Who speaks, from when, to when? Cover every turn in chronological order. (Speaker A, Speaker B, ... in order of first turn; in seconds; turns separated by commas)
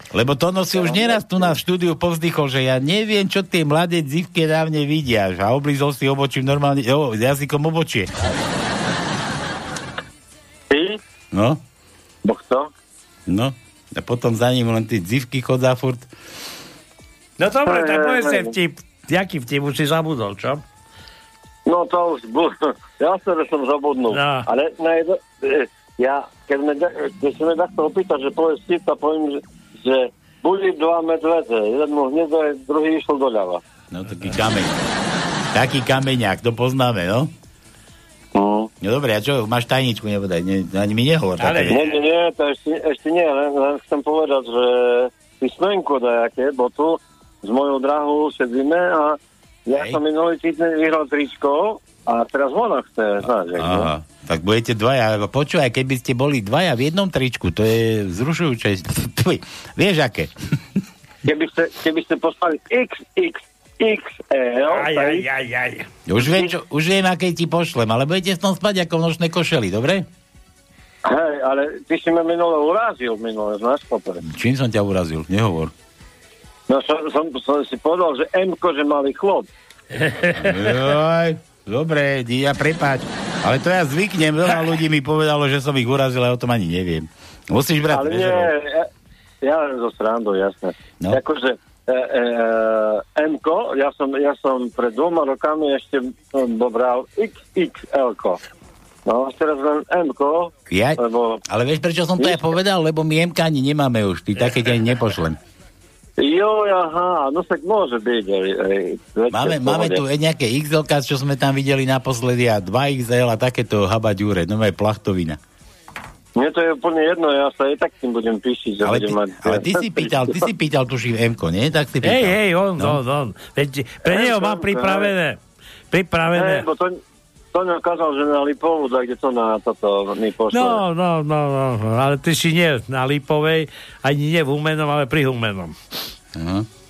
Speaker A: 0.1-8.1, Speaker B: 0.8-1.4, Speaker B: 10.7-11.0, Speaker A: 11.3-11.6, Speaker B: 12.2-12.7, Speaker A: 13.3-16.1, Speaker C: 17.4-20.6, Speaker B: 17.6-18.5, Speaker B: 21.7-33.6, Speaker C: 24.1-24.5, Speaker A: 33.9-34.8, Speaker A: 35.5-37.3, Speaker B: 38.4-38.7, Speaker A: 38.8-41.9, Speaker C: 41.4-41.9, Speaker B: 41.7-53.9, Speaker A: 49.7-50.0, Speaker A: 53.6-60.3, Speaker B: 61.2-65.3, Speaker C: 64.7-65.9, Speaker A: 66.1-70.1, Speaker B: 71.0-74.2, Speaker A: 74.2-75.7, Speaker B: 76.7-79.5, Speaker C: 80.0-80.7, Speaker A: 80.4-88.5, Speaker B: 87.9-88.9, Speaker B: 89.4-98.4, Speaker B: 99.0-101.4, Speaker A: 100.7-105.4, Speaker B: 106.2-110.0, Speaker A: 109.3-115.4, Speaker B: 116.4-120.4, Speaker A: 118.8-123.0, Speaker C: 122.0-125.4, Speaker B: 124.0-125.1, Speaker C: 125.9-126.7, Speaker B: 126.3-127.0, Speaker B: 127.5-130.8, Speaker C: 130.5-135.8, Speaker A: 136.3-136.7